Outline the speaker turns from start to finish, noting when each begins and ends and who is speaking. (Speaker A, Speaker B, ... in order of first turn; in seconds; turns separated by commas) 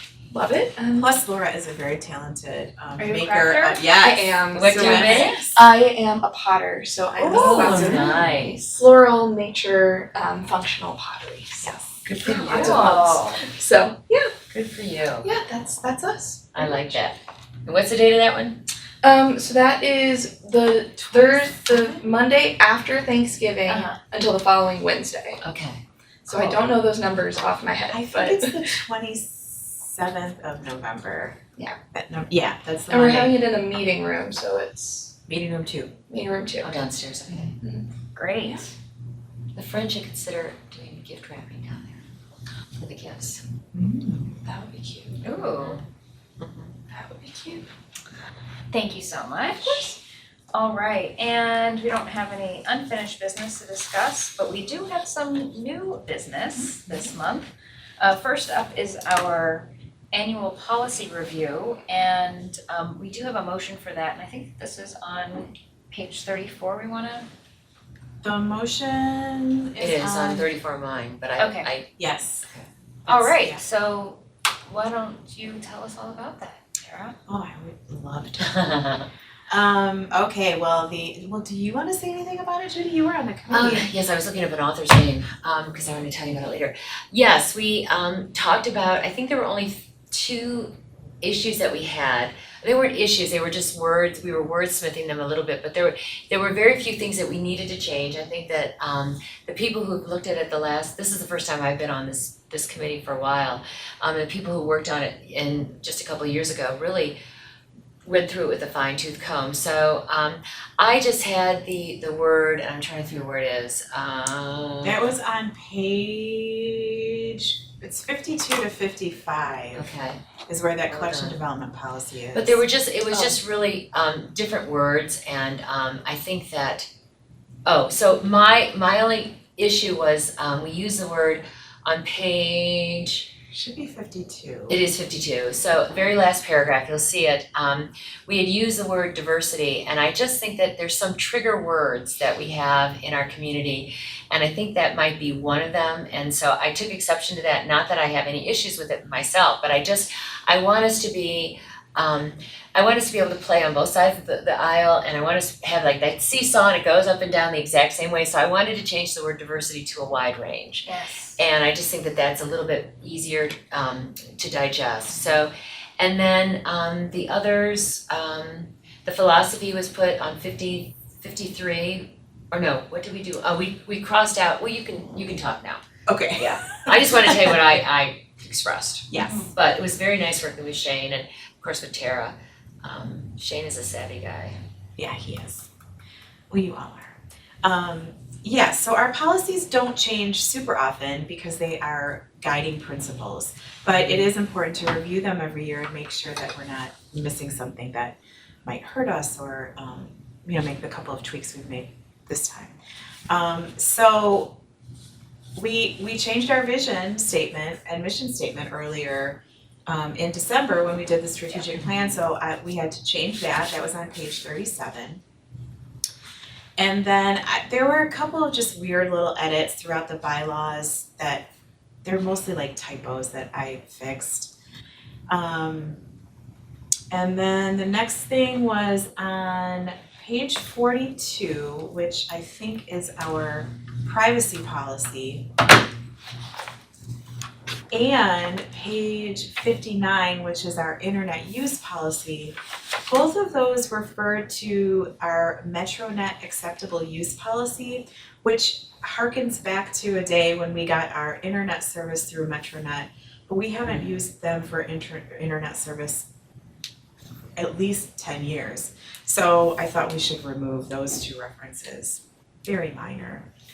Speaker A: 0.3-1.2, Speaker B: 1.0-5.7, Speaker C: 3.0-3.9, Speaker A: 4.0-14.3, Speaker D: 4.5-5.4, Speaker D: 7.2-8.8, Speaker C: 7.3-8.6, Speaker B: 7.3-8.0, Speaker B: 12.1-12.8, Speaker C: 12.3-13.4, Speaker D: 14.5-15.3, Speaker A: 15.2-17.0, Speaker D: 16.5-18.6, Speaker A: 19.0-25.4, Speaker B: 21.0-22.0, Speaker C: 23.7-24.0, Speaker D: 25.4-25.8, Speaker A: 26.2-28.7, Speaker B: 26.3-26.6, Speaker B: 27.9-31.4, Speaker B: 31.9-33.4, Speaker A: 32.9-35.1, Speaker B: 35.3-35.9, Speaker A: 36.1-36.9, Speaker D: 36.6-37.6, Speaker A: 37.6-38.6, Speaker C: 38.1-38.7, Speaker D: 39.5-42.0, Speaker D: 42.8-43.4, Speaker B: 43.7-44.4, Speaker A: 44.4-45.3, Speaker C: 45.2-45.8, Speaker D: 45.5-45.8, Speaker D: 46.4-46.7, Speaker A: 46.9-47.7, Speaker C: 48.7-50.0, Speaker C: 50.5-67.3, Speaker B: 68.2-70.5, Speaker D: 69.8-71.9, Speaker C: 71.4-71.7, Speaker B: 72.0-72.5, Speaker B: 73.1-73.6, Speaker C: 73.1-77.2, Speaker B: 77.3-83.9, Speaker D: 78.4-79.1, Speaker D: 83.5-107.2, Speaker D: 108.0-115.2, Speaker B: 114.8-119.9, Speaker D: 119.8-120.2, Speaker B: 120.5-122.6, Speaker D: 120.9-121.4, Speaker D: 122.3-126.9, Speaker D: 127.7-133.3, Speaker B: 133.5-134.8, Speaker D: 134.7-175.8, Speaker C: 160.9-161.4, Speaker B: 176.1-177.6, Speaker D: 176.4-184.6, Speaker B: 179.1-179.5, Speaker B: 185.0-185.7, Speaker B: 186.5-202.8, Speaker B: 203.3-204.6, Speaker B: 205.6-215.2, Speaker B: 216.8-221.5, Speaker B: 222.0-224.5, Speaker B: 225.3-226.0, Speaker B: 227.1-235.5, Speaker B: 237.9-256.3, Speaker B: 257.6-263.5